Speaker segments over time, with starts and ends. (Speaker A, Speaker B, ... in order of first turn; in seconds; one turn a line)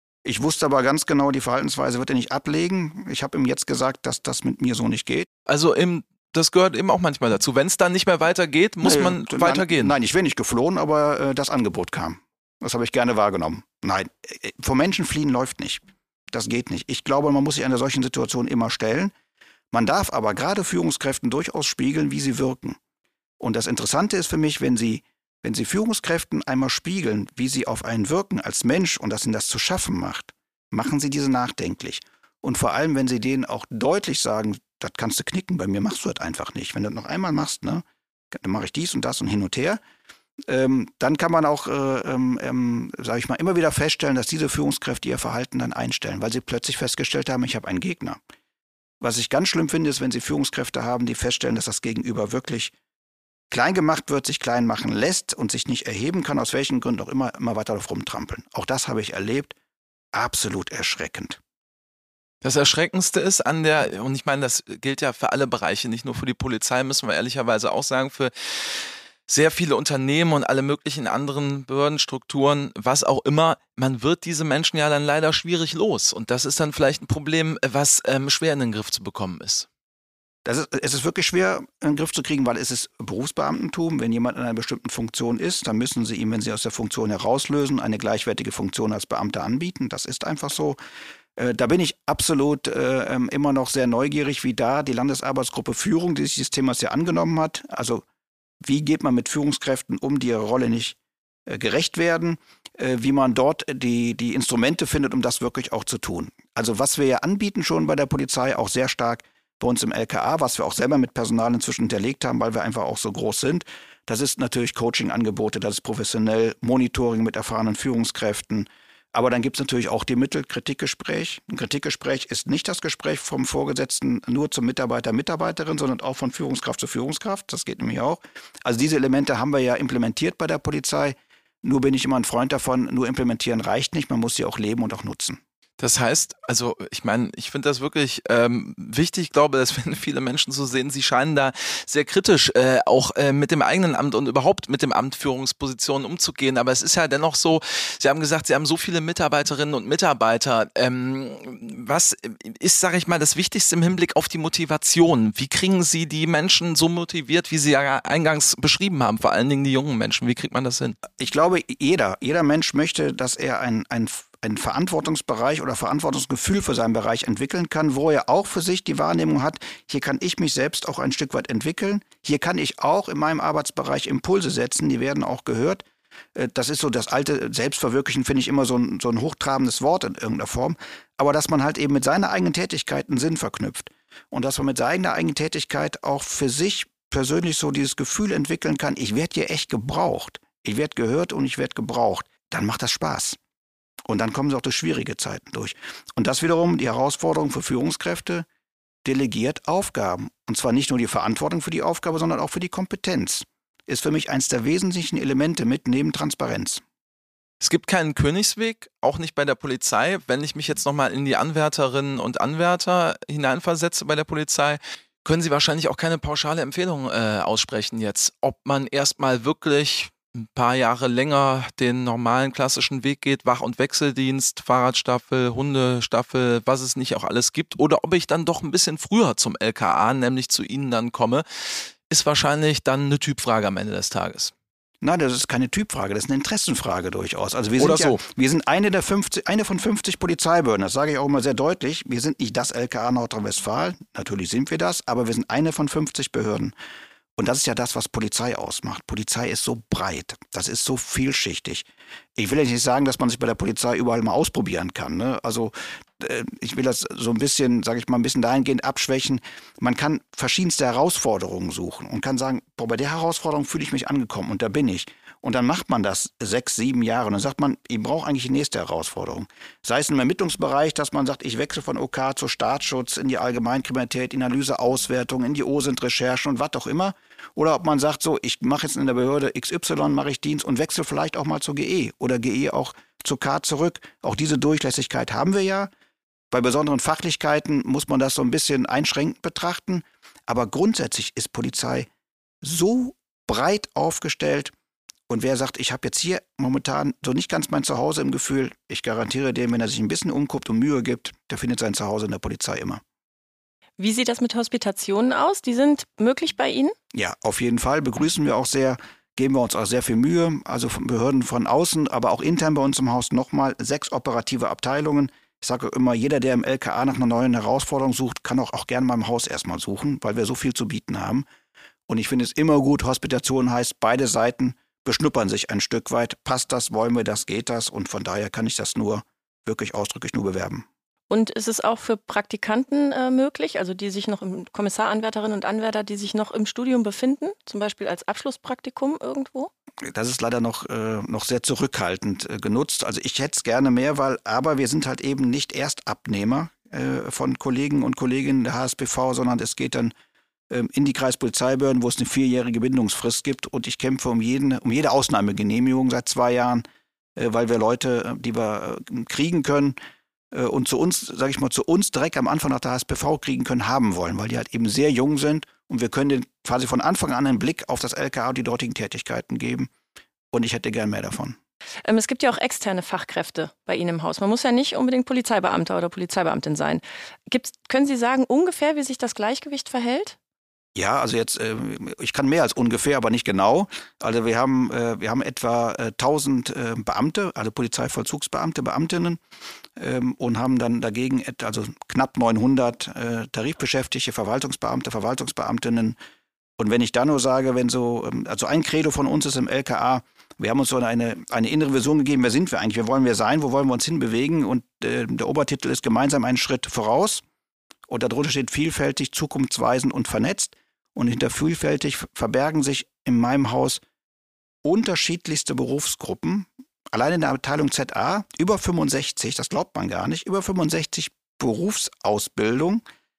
Speaker A: 0.2-5.3
Speaker B: 5.5-10.0
Speaker A: 8.8-19.1
Speaker A: 19.7-22.8
Speaker A: 23.4-39.8
Speaker A: 40.5-48.2
Speaker A: 49.0-52.7
Speaker A: 53.5-59.5
Speaker A: 60.1-61.4
Speaker B: 62.4-79.7
Speaker A: 80.5-90.8
Speaker A: 91.4-98.0
Speaker A: 98.6-135.4
Speaker B: 135.8-161.0
Speaker A: 161.2-175.8
Speaker A: 176.3-193.4
Speaker A: 194.1-198.5
Speaker A: 199.0-206.8
Speaker B: 207.6-234.5
Speaker A: 235.0-246.7
Speaker B: 237.8-238.2
Speaker A: 247.4-285.9
Speaker A: 286.5-292.1
Speaker A: 292.6-294.7
Speaker A: 295.3-303.0
Speaker C: 304.0-306.9
Speaker A: 307.1-321.5
Speaker A: 322.1-330.9
Speaker C: 331.3-339.7
Speaker A: 340.0-350.1
Speaker A: 350.7-356.9
Speaker A: 357.4-360.0
Speaker A: 360.5-369.9
Speaker A: 370.5-371.6
Speaker C: 372.0-380.4
Speaker A: 381.0-389.4
Speaker A: 390.0-396.2
Speaker A: 396.8-407.4
Speaker A: 408.1-414.0
Speaker A: 414.8-423.0